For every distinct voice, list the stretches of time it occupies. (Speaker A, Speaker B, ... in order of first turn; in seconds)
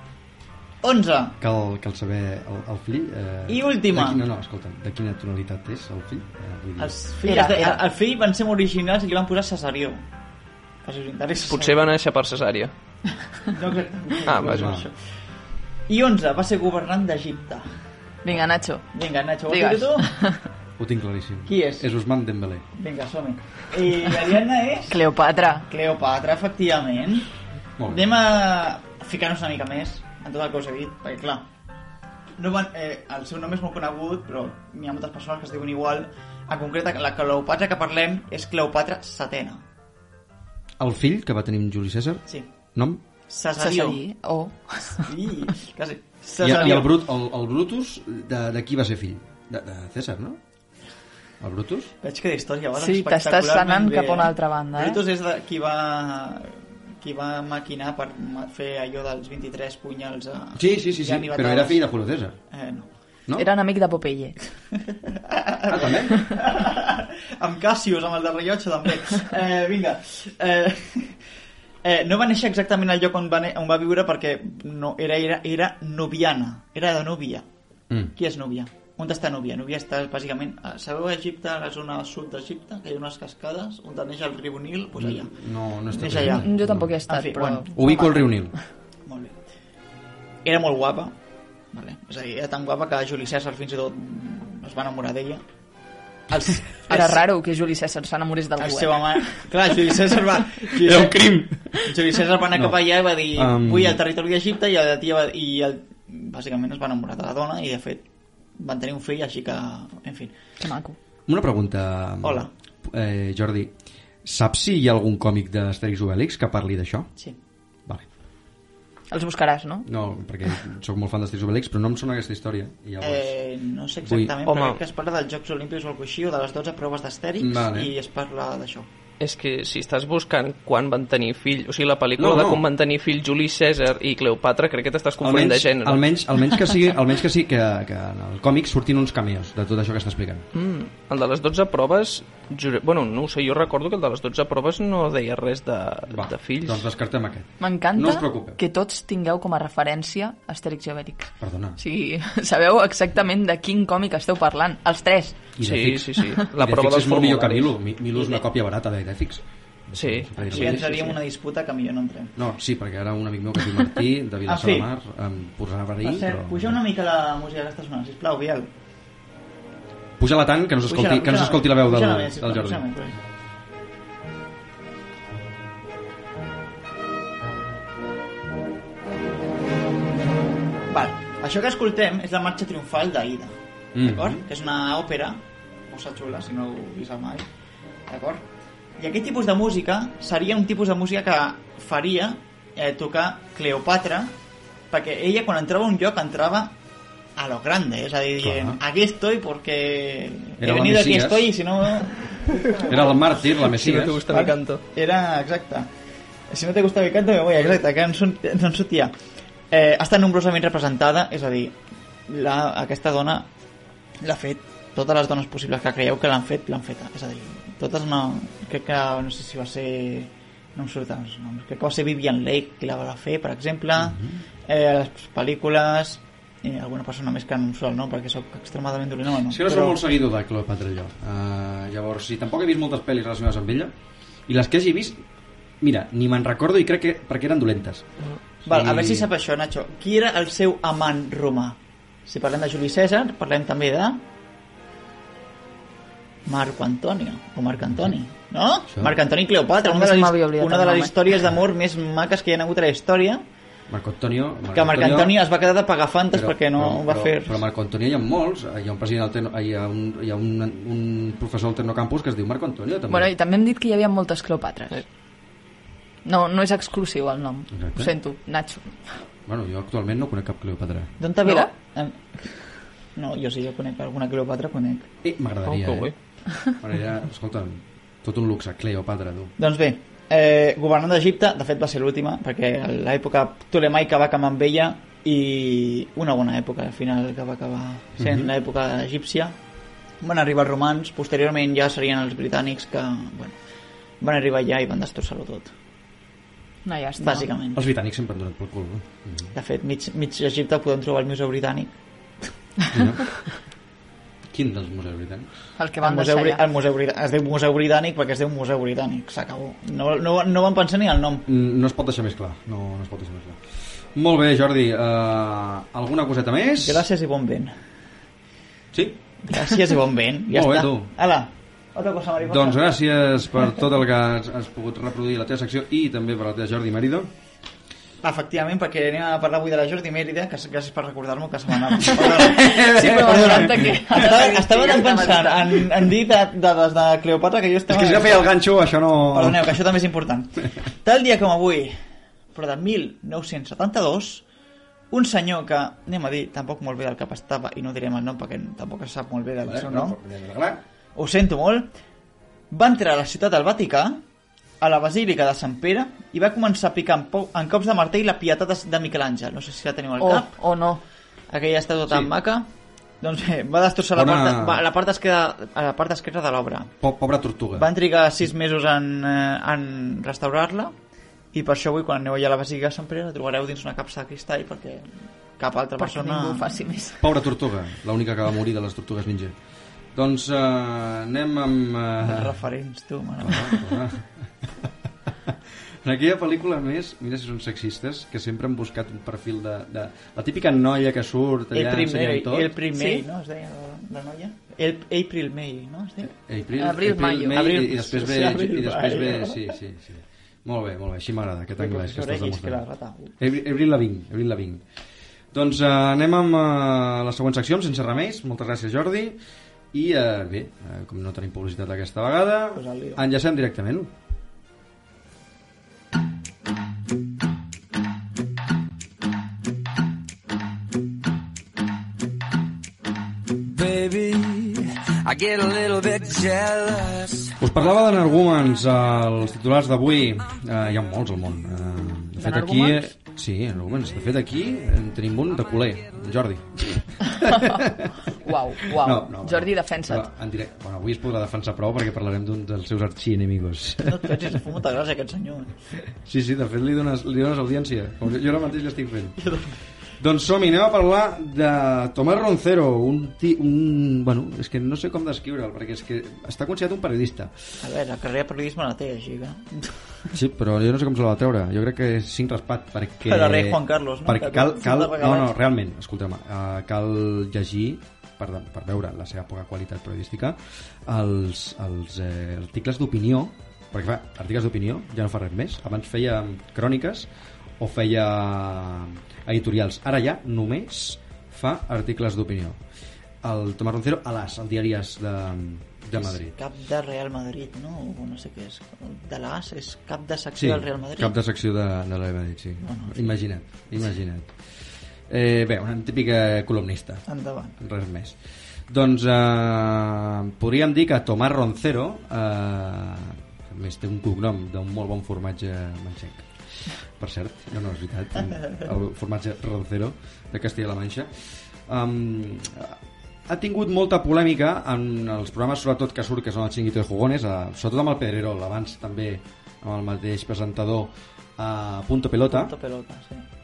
Speaker A: 0.8-1.4, 3.5-4.2, 6.8-10.0, 10.8-11.9, 13.5-14.9, 15.9-17.6, 18.9-20.1, 21.5-21.8, 22.8-24.9, 25.7-27.3, 27.9-31.4, 32.4-39.6, 43.3-44.0, 45.0-46.9, 52.0-61.8, 62.5-62.9, 65.1-71.1, 71.8-77.4, 78.1-85.3, 85.9-86.5, 87.1-88.0, 89.0-89.4, 90.4-91.1, 91.7-95.4, 96.3-97.2, 98.6-101.2, 101.8-108.0, 108.6-110.3, 112.2-112.5, 123.0-128.9, 158.1-158.4, 160.4-162.3, 164.4-164.9, 166.0-168.7, 170.9-173.2, 180.9-187.4, 188.1-188.4, 189.0-194.3, 194.9-196.7, 197.3-203.2, 204.3-205.9, 206.5-209.1, 209.7-211.8, 212.3-213.5, 214.2-230.0, 238.6-244.2, 246.4-253.4, 254.7-257.6, 271.2-275.1, 279.6-289.5, 290.2-293.6, 294.2-295.7, 297.2-297.8, 299.5-301.9, 306.0-311.4, 316.8-317.7, 319.5-322.8, 328.2-338.5, 339.3-341.9, 342.5-344.4, 345.1-350.1, 351.1-351.9, 352.7-354.2, 354.8-360.5, 361.5-362.7, 363.2-366.9, 367.7-370.9, 371.5-376.7, 382.2-383.9, 391.7-396.3, 397.5-399.8, 401.8-403.3, 412.7-413.2, 444.0-445.8, 449.4-449.7, 457.8-460.3, 463.2-465.5, 486.1-491.3, 492.8-493.3, 497.3-497.7, 522.5-523.5
Speaker B: 1.4-6.9, 14.4-14.9, 20.8-22.6, 27.8-28.1, 40.8-42.2, 42.7-43.0, 46.4-50.4, 51.4-51.9, 60.5-62.4, 65.7-66.3, 85.0-86.9, 87.7-88.5, 100.8-101.8, 102.5-104.0, 111.3-113.7, 114.2-117.1, 119.8-123.3, 124.0-124.3, 127.4-127.9, 132.2-132.6, 135.2-140.4, 146.1-148.6, 151.4-151.8, 155.6-161.0, 162.3-166.8, 170.2-172.9, 183.9-184.4, 198.4-198.8, 200.6-201.5, 202.8-204.2, 224.0-224.4, 229.5-233.9, 234.5-235.2, 235.8-238.0, 238.6-239.3, 248.9-249.2, 253.9-255.4, 256.3-263.3, 267.7-268.1, 269.4-271.1, 275.2-276.1, 276.7-279.5, 288.2-288.5, 297.7-299.5, 302.9-303.2, 304.5-305.5, 311.5-313.6, 314.1-317.1, 318.9-319.2, 320.5-321.1, 322.4-327.3, 332.2-334.2, 337.9-339.8, 349.6-350.8, 364.1-364.8, 367.0-367.9, 377.2-379.5, 380.1-382.5, 383.4-384.3, 386.0-392.7, 396.4-402.8, 403.4-404.8, 405.5-409.4, 409.9-414.1, 427.6-438.1, 438.8-444.5, 446.2-449.4, 450.2-457.5, 460.3-477.3, 477.8-482.8, 483.4-486.5, 490.6-494.5, 495.3-497.2, 497.8-498.4, 498.9-506.5, 507.2-511.3, 511.9-513.0, 513.5-522.7
Speaker C: 7.2-7.8, 18.2-18.9, 19.5-20.4, 24.9-25.7, 43.6-45.1, 52.8-55.0, 63.4-64.4, 86.2-88.3, 96.9-99.0, 110.6-111.0, 119.1-119.9, 147.6-155.4, 249.8-251.1, 263.1-265.0, 266.2-269.2, 271.4-271.7, 296.8-297.5, 305.8-306.6, 332.5-335.8, 360.2-361.0, 376.0-377.2, 392.9-393.2, 396.8-397.6, 432.4-433.1, 438.4-440.3
Speaker D: 11.5-12.7, 14.3-14.7, 124.4-124.8, 129.2-136.0, 140.5-146.8, 155.6-157.7, 159.9-161.2, 203.6-204.8, 275.6-276.1
Speaker E: 423.6-427.6